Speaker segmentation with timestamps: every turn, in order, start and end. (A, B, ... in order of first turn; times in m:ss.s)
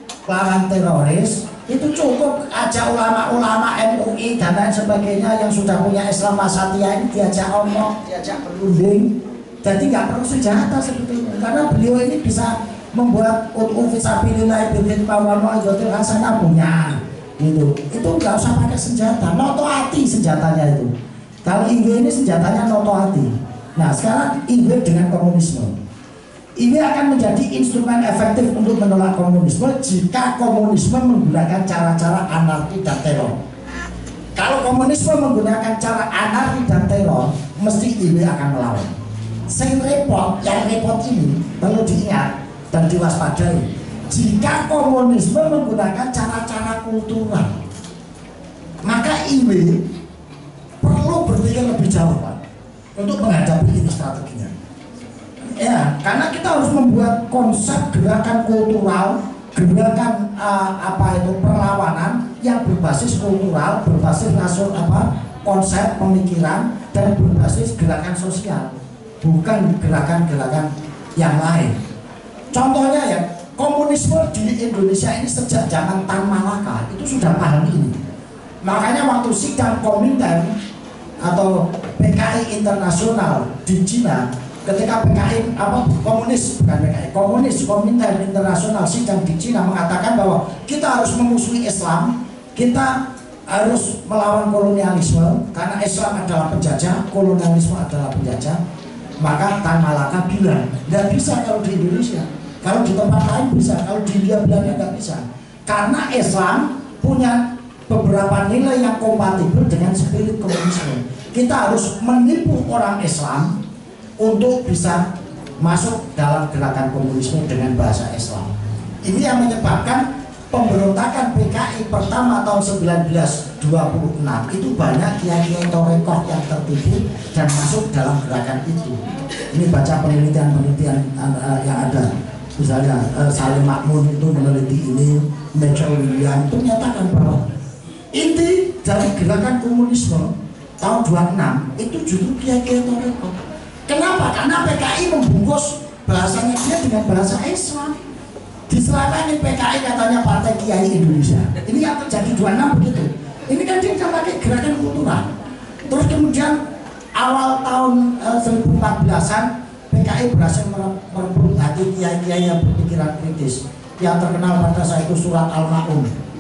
0:00.3-0:20.9 A
0:21.4-0:25.7 A
0:26.6-0:33.4 A
0:34.4-0:38.9 A
0:39.5-0:47.6 A
0:48.8-0:49.9 A
0:50.8-0:52.4 A
0:53.0-0:54.5 A
0:55.4-1:11.8 A
1:12.5-1:18.0 A
1:18.6-1:20.5 A
1:21.2-1:38.6 A
1:39.2-1:53.6 A
1:54.2-1:55.0 A
1:55.6-1:58.5 A
1:59.0-2:17.4 A
2:18.1-2:28.0 A
2:28.7-2:35.3 A
2:35.9-2:36.6 A
2:37.2-2:46.1 A